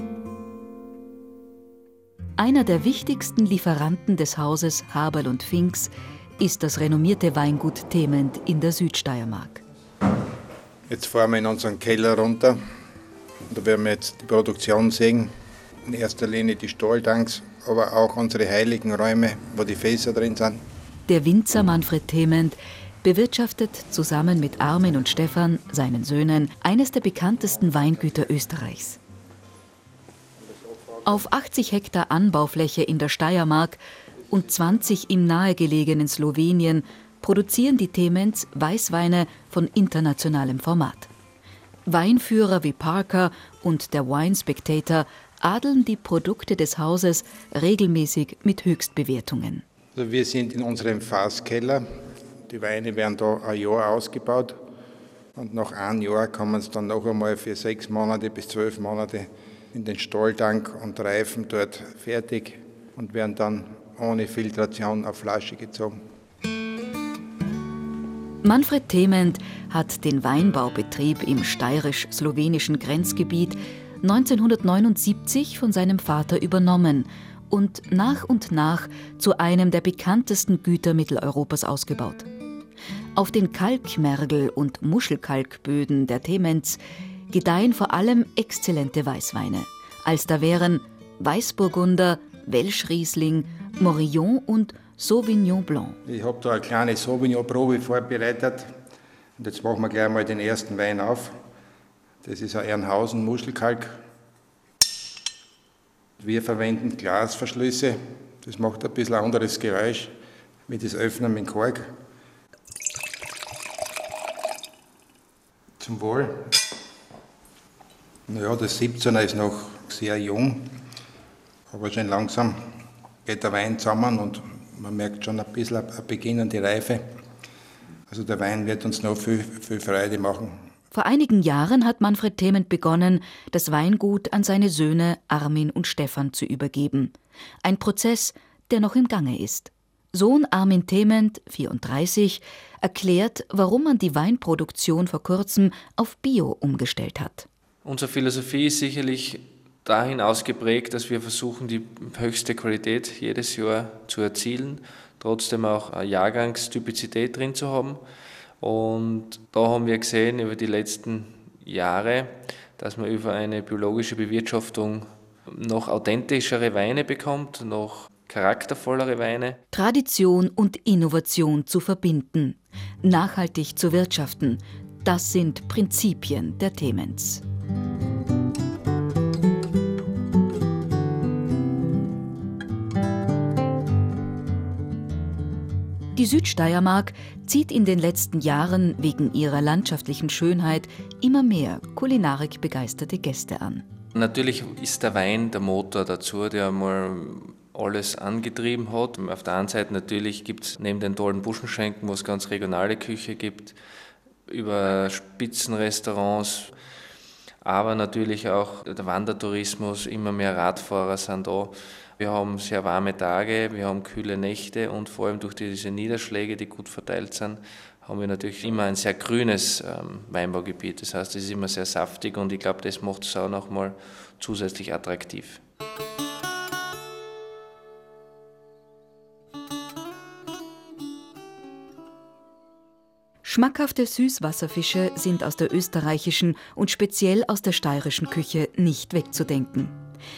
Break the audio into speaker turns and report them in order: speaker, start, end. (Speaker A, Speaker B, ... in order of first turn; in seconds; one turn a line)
Speaker A: 2.4-9.6
Speaker B: 10.9-12.6
Speaker B: 13.5-15.3
Speaker B: 15.9-20.6
Speaker A: 21.1-29.0
Speaker A: 31.1-41.1
Speaker A: 41.9-49.6
Speaker B: 50.0-51.8
Speaker B: 52.5-54.5
Speaker B: 55.4-66.0
Speaker A: 68.4-82.3
Speaker A: 83.2-86.8
Speaker A: 87.3-96.0
Speaker B: 96.1-98.7
Speaker B: 99.4-101.3
Speaker B: 102.2-104.0
Speaker B: 106.2-110.1
Speaker B: 110.7-111.9
Speaker B: 115.8-116.3
Speaker B: 118.3-120.7
Speaker B: 121.7-122.6
Speaker B: 123.3-127.0
Speaker B: 128.1-130.5
Speaker A: 130.9-147.5
Speaker C: 147.8-158.0
Speaker C: 158.6-169.6
Speaker A: 169.7-177.4
Speaker A: 186.1-193.8
Speaker C: 194.2-203.8
Speaker C: 204.5-206.7
Speaker C: 207.6-225.6
Speaker A: 233.4-239.9